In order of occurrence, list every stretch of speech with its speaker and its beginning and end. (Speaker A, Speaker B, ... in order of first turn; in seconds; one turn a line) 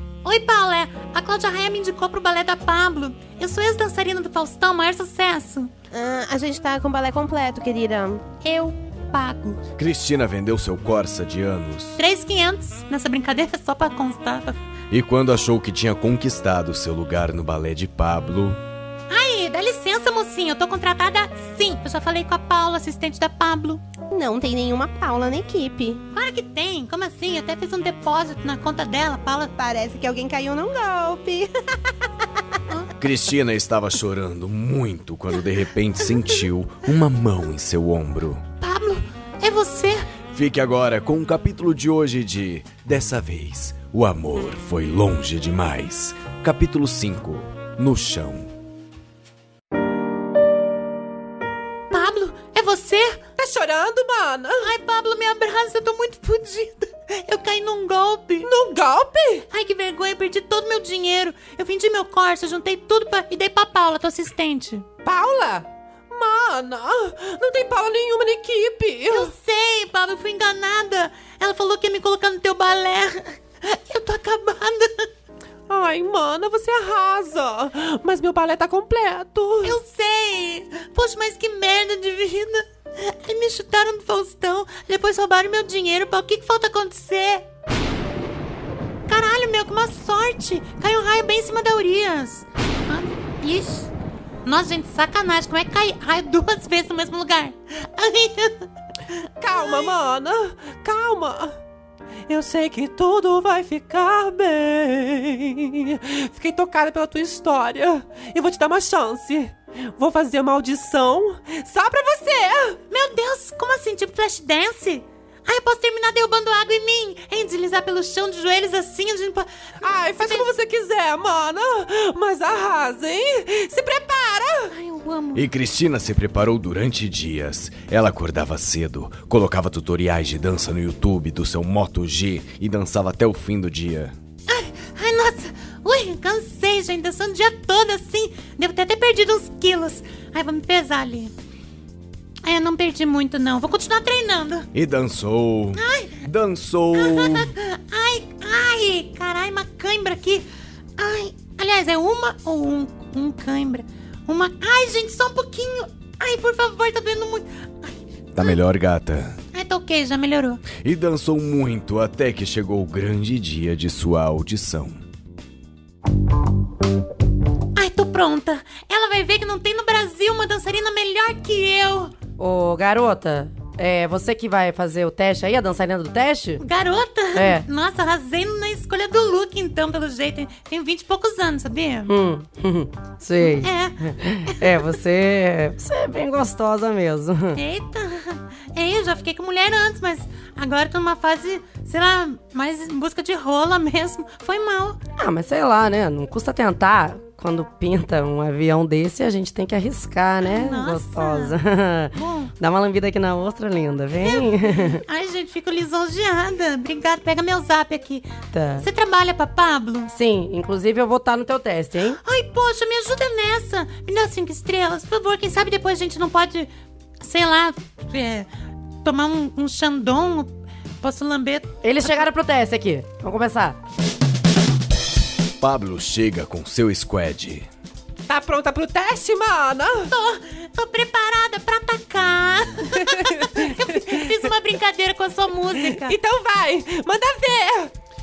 Speaker A: 0.2-5.7
Speaker B: 5.9-8.2
Speaker A: 8.4-9.6
Speaker C: 9.8-12.0
Speaker A: 12.0-14.6
Speaker C: 14.9-18.6
Speaker A: 19.1-23.8
Speaker B: 24.1-26.0
Speaker A: 26.1-29.5
Speaker B: 29.6-32.1
Speaker C: 33.0-38.4
Speaker A: 38.6-40.1
Speaker C: 40.3-48.5
Speaker A: 51.9-53.2
Speaker D: 53.4-54.7
Speaker A: 54.6-58.5
Speaker D: 58.4-59.5
Speaker A: 59.5-64.8
Speaker D: 65.0-69.3
Speaker A: 69.1-75.1
Speaker D: 75.7-79.8
Speaker A: 79.6-87.5
Speaker A: 89.1-93.9
Speaker A: 94.4-98.7
Speaker D: 99.4-101.5
Speaker A: 99.5-99.9
Speaker D: 102.3-112.8
Speaker A: 112.9-119.5
Speaker D: 119.8-124.7
Speaker A: 120.0-120.5
Speaker A: 124.7-125.5
Speaker C: 125.3-134.1
Speaker A: 134.5-141.3
Speaker A: 142.4-144.7
Speaker C: 144.7-147.5
Speaker A: 145.8-146.3
Speaker A: 146.9-150.4
Speaker A: 151.0-158.6
Speaker C: 158.3-159.4
Speaker A: 159.5-160.7
Speaker C: 160.7-165.0
Speaker A: 167.7-172.1
Speaker E: 172.4-176.6
Speaker A: 176.6-182.1
Speaker E: 177.3-177.7
Speaker E: 182.1-187.6
Speaker A: 183.4-184.8
Speaker A: 187.5-195.0
Speaker E: 195.2-205.0
Speaker A: 200.4-201.5
Speaker A: 202.1-202.5
Speaker A: 204.2-208.3
Speaker E: 208.5-208.9
Speaker A: 208.8-210.1
Speaker E: 210.1-212.2
Speaker A: 212.2-216.7
Speaker A: 217.2-218.5
Speaker A: 219.0-222.2
Speaker E: 221.8-223.8
Speaker C: 225.6-227.7
Speaker D: 228.3-230.1
Speaker A: 230.1-236.2
Speaker D: 235.8-237.9